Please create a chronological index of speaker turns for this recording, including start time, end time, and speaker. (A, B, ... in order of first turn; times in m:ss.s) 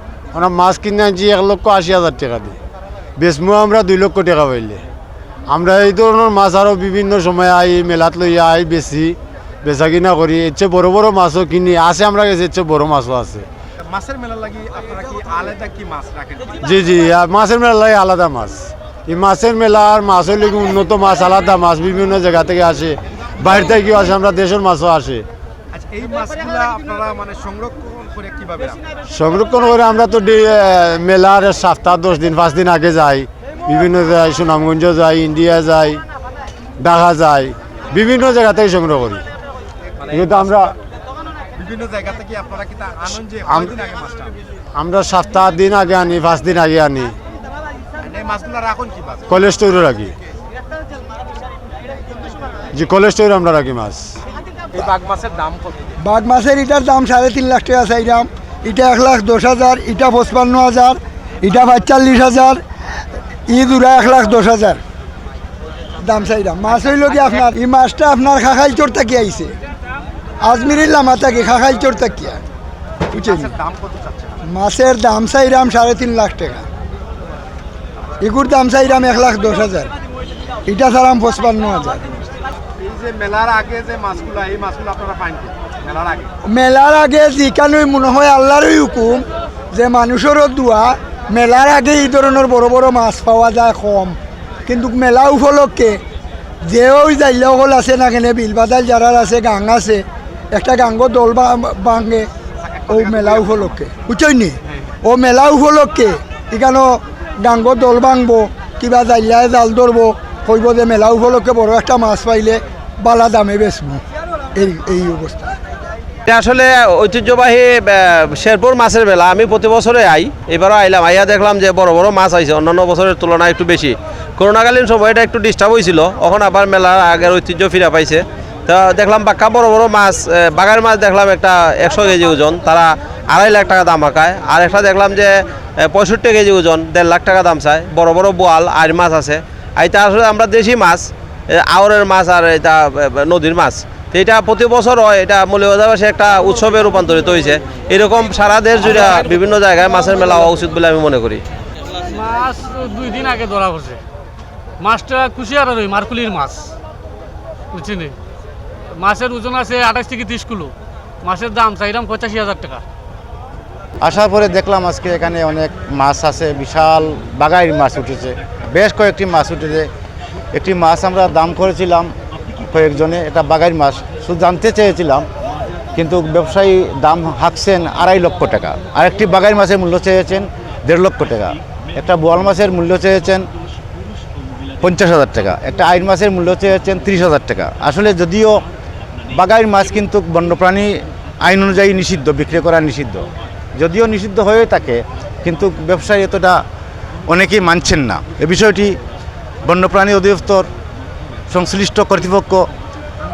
0:00.3-0:02.6 A
0:03.2-0:04.8 A
0:05.5-0:13.5 A
0:13.8-0:16.6 B
0:16.6-0:25.3 A
0:25.7-0:28.8 B
0:29.1-0:36.0 A
0:36.8-0:39.2 A
0:40.0-0:40.6 B
0:40.1-0:40.7 A
0:41.6-0:44.4 B
0:44.8-0:47.1 A
0:48.0-0:49.3 B
0:49.3-0:50.1 A
0:52.7-0:54.2 A
0:54.7-0:55.9 B
0:56.0-1:02.6 C
1:03.5-1:04.8 C
1:06.0-1:09.5 C
1:10.4-1:12.4 C
1:13.1-1:13.5 C
1:13.1-1:14.4 B
1:14.5-1:16.6 C
1:18.2-1:19.9 C
1:20.7-1:22.1 C
1:22.8-1:26.3 B
1:26.5-1:36.0 C
1:36.6-1:42.3 C
1:42.6-1:43.6 B
1:42.9-1:54.0 C
1:54.6-1:55.6 C
1:56.3-2:31.4 D
2:32.1-2:34.0 E
2:34.8-2:36.7 E
2:37.7-2:38.2 E
2:39.0-2:42.8 E
2:44.0-2:49.9 F
2:50.5-2:52.1 F
2:52.7-2:55.3 F
2:56.0-3:03.5 F
3:04.8-3:08.6 F
3:09.3-3:16.6 F
3:17.3-3:19.0 F
3:19.7-3:20.7 F
3:21.5-3:22.6 F